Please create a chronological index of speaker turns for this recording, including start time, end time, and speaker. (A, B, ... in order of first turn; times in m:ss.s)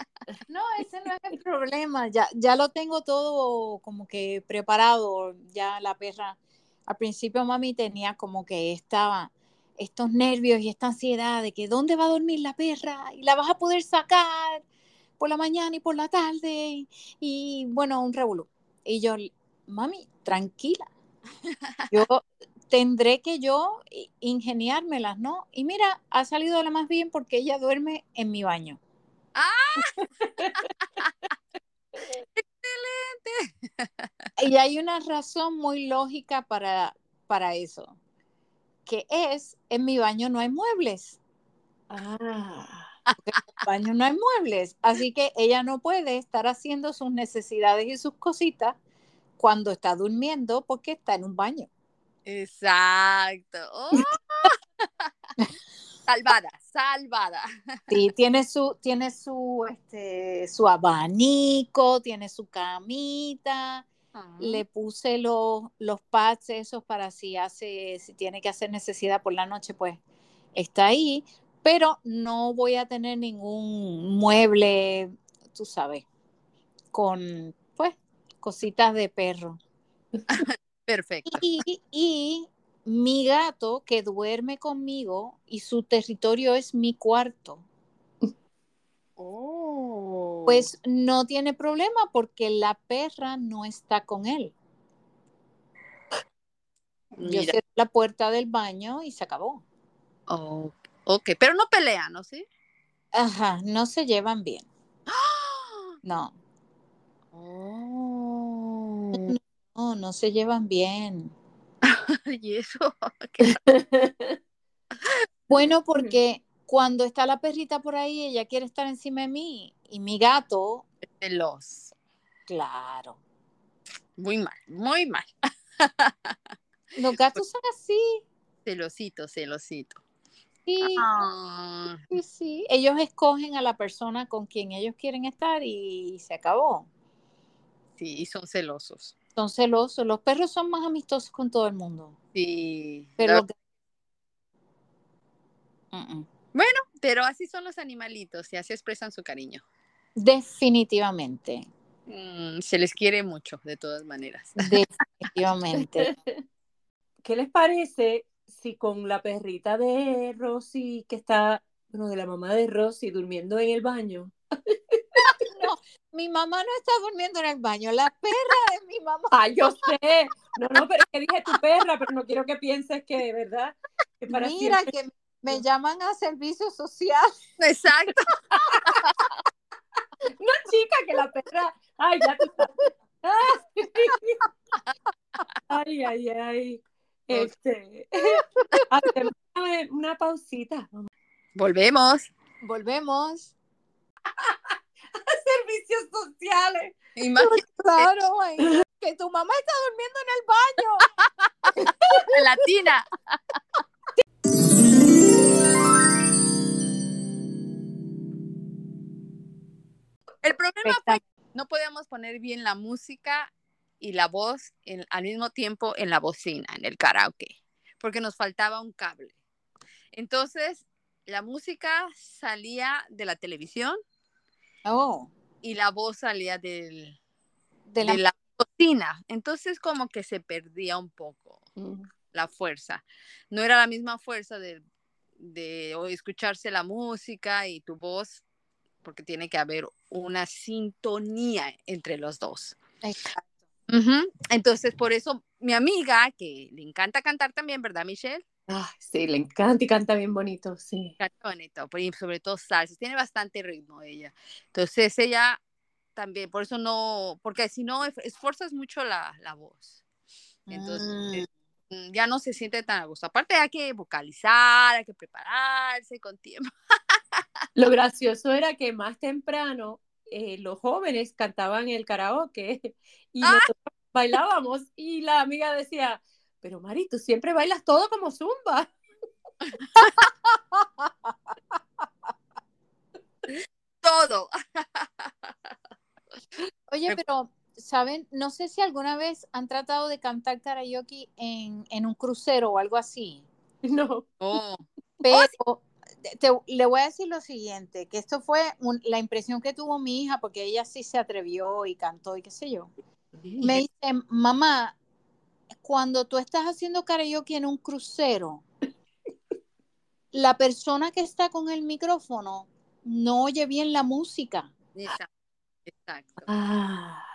0:00.5-0:14.6 A
0:15.2-0:20.8 A
0:21.9-0:28.8 A
0:29.3-0:29.9 B
0:30.4-0:30.7 C
0:30.5-0:31.1 B
0:32.3-0:34.1 B
0:34.4-0:38.0 A
0:38.8-0:41.2 A
0:41.9-0:42.9 C
0:43.2-0:48.8 A
0:49.4-0:51.7 A
0:52.2-0:54.5 B
0:56.1-0:57.9 B
0:57.9-1:03.9 A
1:04.1-1:04.6 B
1:04.4-1:10.0 A
1:10.5-1:16.0 A
1:16.9-1:19.6 A
1:20.3-1:21.4 B
1:21.2-1:27.6 A
1:29.2-1:30.7 B
1:30.4-1:34.5 A
1:37.1-1:37.6 B
1:37.2-1:39.6 A
1:40.3-1:42.4 B
1:43.1-1:44.7 A
1:45.1-1:45.9 B
1:46.0-1:46.3 A
1:47.3-1:49.3 B
1:49.1-1:51.3 A
1:51.8-1:53.6 B
1:53.4-1:54.4 C
1:55.5-2:00.8 A
2:01.2-2:01.9 B
2:02.5-2:03.2 A
2:04.2-2:06.3 B
2:07.0-2:08.2 A
2:08.6-2:10.0 B
2:10.6-2:11.1 A
2:10.8-2:12.0 B
2:12.1-2:16.9 A
2:18.0-2:19.1 B
2:19.4-2:22.2 A
2:22.3-2:23.4 B
2:23.2-2:23.5 A
2:25.9-2:26.3 A
2:26.5-2:29.6 B
2:30.2-2:31.7 A
2:32.1-2:34.7 B
2:34.6-2:36.1 A
2:36.0-2:36.3 C
2:37.2-2:44.3 C
2:44.9-2:45.2 C
2:45.3-2:49.3 A
2:49.3-2:54.8 C
2:54.3-2:57.3 A
2:57.6-2:59.1 B
3:00.4-3:04.4 C
3:05.7-3:11.1 C
3:11.6-3:12.3 B
3:12.6-3:13.5 A
3:15.2-3:16.9 C
3:17.2-3:18.1 B
3:17.4-3:21.1 A
3:22.3-3:23.0 B
3:30.4-3:39.4 B
3:30.8-3:31.2 A
3:40.1-3:44.0 B
3:44.8-3:45.3 A
3:45.6-3:47.2 B
3:47.9-3:48.2 A
3:48.0-3:51.6 B
3:51.8-3:52.1 C
3:52.3-3:54.8 B
3:55.4-3:58.4 B
3:59.0-4:02.8 B
4:03.0-4:03.5 A
4:03.9-4:08.4 B
4:08.7-4:11.2 C
4:11.2-4:15.6 B
4:16.2-4:20.0 B
4:20.7-4:21.4 A
4:20.7-4:26.6 B
4:27.8-4:38.9 C
4:33.4-4:33.7 B
4:40.2-4:40.9 A
4:43.5-4:45.7 B
4:46.9-4:53.5 A
4:53.8-4:54.3 C
4:54.4-4:55.5 B
4:55.2-5:02.9 A
5:03.4-5:03.8 C
5:03.6-5:05.0 A
5:05.8-5:08.6 A
5:10.3-5:14.7 A
5:14.9-5:15.3 B
5:15.8-5:16.5 B
5:16.5-5:17.2 C